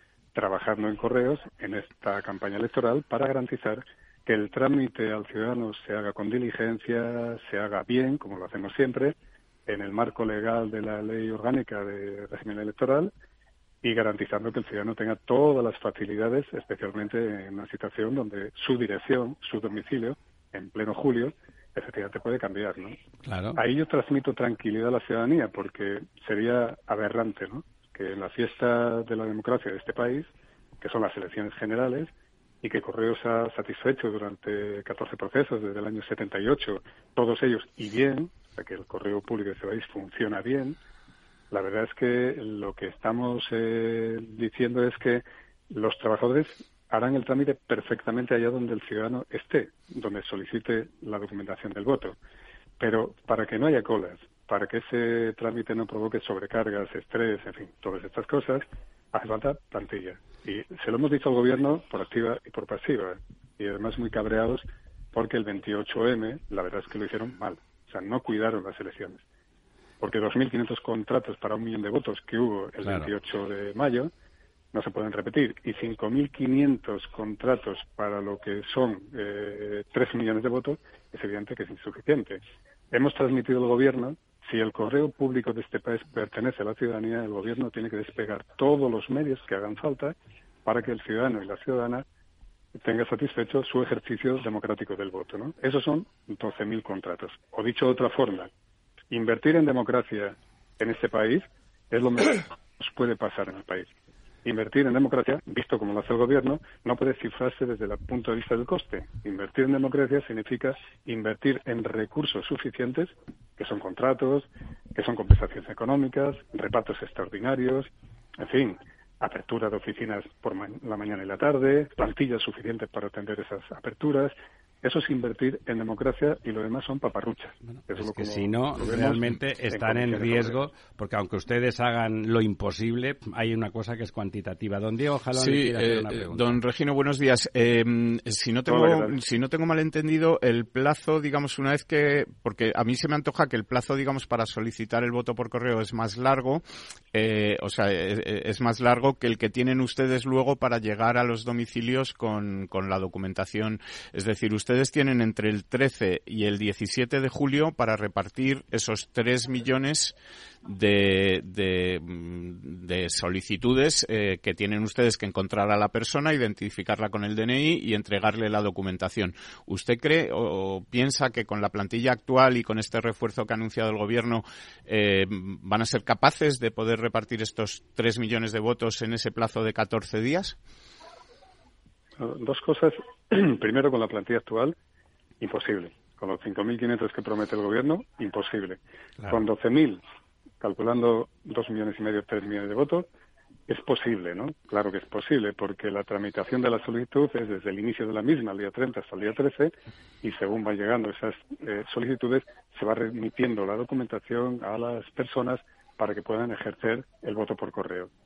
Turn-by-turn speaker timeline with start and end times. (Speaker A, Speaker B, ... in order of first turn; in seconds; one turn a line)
Speaker A: 0.3-13.1
Speaker A: 13.8-22.9
Speaker B: 23.2-23.6
Speaker A: 23.5-30.3
Speaker A: 30.8-32.1
Speaker A: 32.6-40.8
Speaker A: 41.5-52.2
Speaker A: 52.8-69.2
Speaker A: 70.0-74.1
Speaker B: 72.8-73.1
Speaker A: 74.7-92.0
Speaker A: 92.7-98.5
Speaker A: 99.1-103.9
Speaker A: 104.4-130.6
Speaker B: 127.9-136.4
Speaker C: 135.3-146.6
Speaker A: 138.7-139.1
Speaker C: 147.1-180.6
Speaker A: 182.2-184.8
Speaker A: 185.4-190.0
Speaker A: 190.6-193.1
Speaker A: 193.7-208.1